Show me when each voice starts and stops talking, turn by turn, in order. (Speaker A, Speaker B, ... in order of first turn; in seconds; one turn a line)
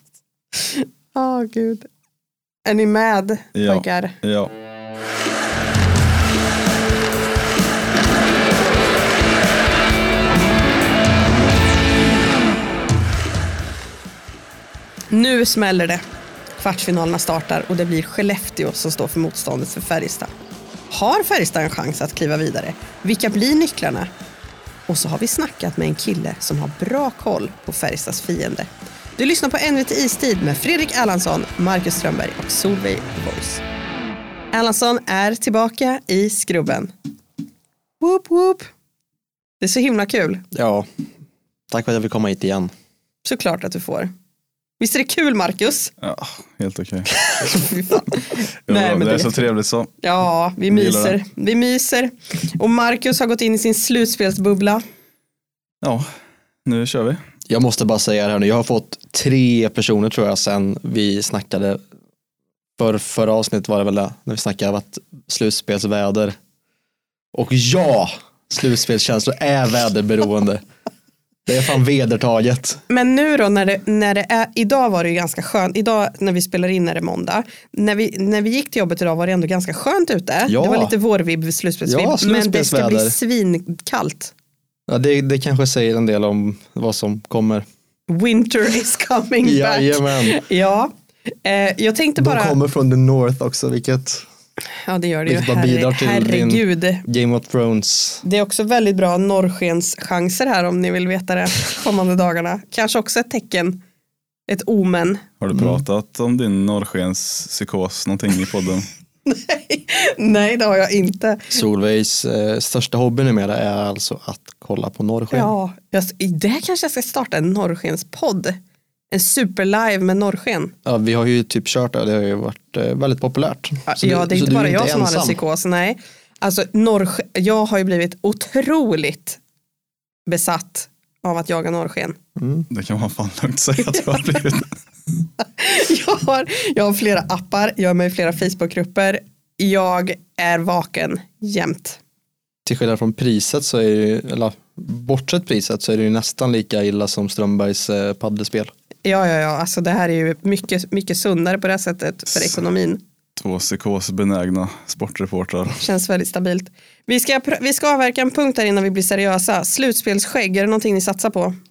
Speaker A: 0.5-1.9
Speaker A: 2.6-4.2
Speaker B: 3.6-4.5
Speaker A: 15.1-16.0
Speaker A: 16.6-20.3
Speaker A: 20.9-24.1
Speaker A: 24.9-33.6
Speaker A: 34.5-36.9
Speaker A: 38.0-38.7
Speaker A: 39.6-40.4
Speaker C: 40.5-40.9
Speaker C: 41.7-42.7
Speaker A: 43.2-44.1
Speaker A: 44.8-45.9
Speaker B: 46.0-47.1
Speaker A: 47.2-49.5
Speaker B: 48.7-49.9
Speaker A: 50.0-54.8
Speaker B: 50.7-51.2
Speaker B: 56.6-57.2
Speaker C: 57.5-61.8
Speaker C: 62.8-66.3
Speaker C: 67.3-70.6
Speaker C: 71.5-72.8
Speaker A: 72.9-84.3
Speaker C: 80.5-80.9
Speaker C: 81.8-83.2
Speaker C: 84.9-87.6
Speaker A: 88.1-90.9
Speaker C: 89.4-90.4
Speaker A: 91.4-92.5
Speaker C: 92.2-94.2
Speaker A: 94.8-97.0
Speaker C: 95.2-98.2
Speaker A: 98.2-103.8
Speaker A: 104.5-105.2
Speaker B: 105.4-108.9
Speaker C: 105.5-105.8
Speaker A: 109.2-111.6
Speaker C: 111.5-115.5
Speaker A: 115.3-118.6
Speaker A: 119.1-120.7
Speaker C: 120.8-125.4
Speaker A: 123.9-129.4
Speaker A: 130.3-132.2
Speaker C: 132.4-132.7
Speaker B: 132.7-134.7
Speaker A: 135.4-142.0
Speaker C: 142.7-148.7
Speaker A: 149.0-153.0
Speaker B: 153.4-155.8
Speaker A: 155.8-161.6